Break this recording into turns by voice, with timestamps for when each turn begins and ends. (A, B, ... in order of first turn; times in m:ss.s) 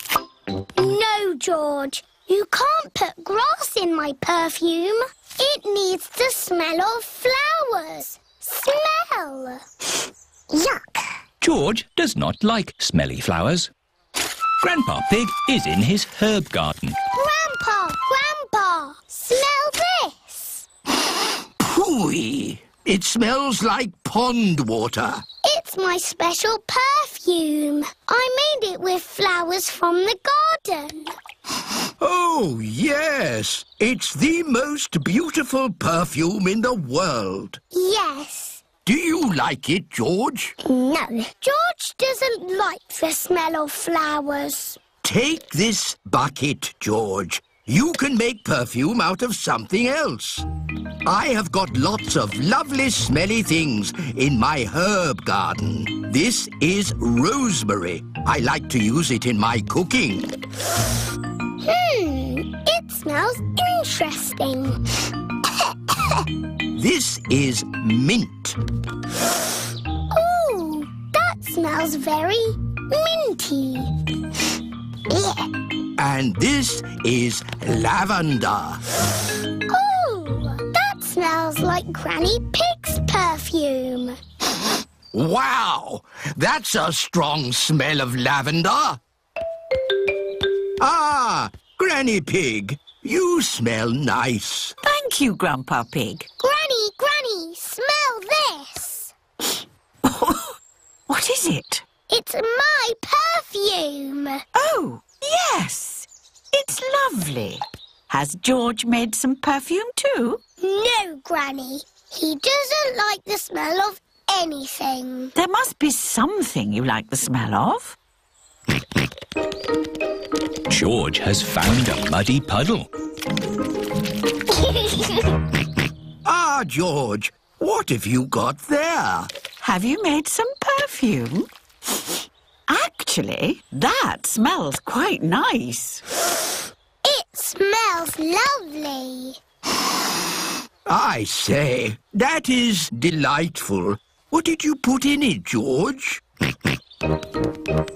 0:00.8-0:09.6 A
0:10.5-0:11.1 A
0:11.4-0:13.7 B
0:14.6-0:17.0 B
0:17.1-0:20.6 A
0:21.6-0:25.2 C
0:25.4-0:31.1 A
0:32.0-0:37.6 C
0:37.7-0:38.6 A
0:38.8-0:40.6 C
0:40.6-0:44.8 A
0:45.0-0:50.5 C
0:51.0-1:00.3 C
1:01.6-1:05.0 A
1:05.6-1:06.1 A
1:06.7-1:08.6 C
1:10.1-1:14.0 A
1:15.1-1:15.5 A
1:16.0-1:18.8 C
1:19.7-1:24.2 A
1:25.1-1:29.0 C
1:30.8-1:34.8 C
1:34.8-1:36.2 D
1:36.4-1:39.1 A
1:40.0-1:40.5 D
1:41.1-1:41.8 D
1:42.1-1:44.4 A
1:44.5-1:50.4 D
1:50.6-1:55.3 A
1:55.3-1:58.0 D
2:00.7-2:02.9 B
2:06.2-2:09.3 C
2:09.6-2:11.5 D
2:12.7-2:16.0 D
2:17.0-2:19.4 A
2:20.9-2:26.2 C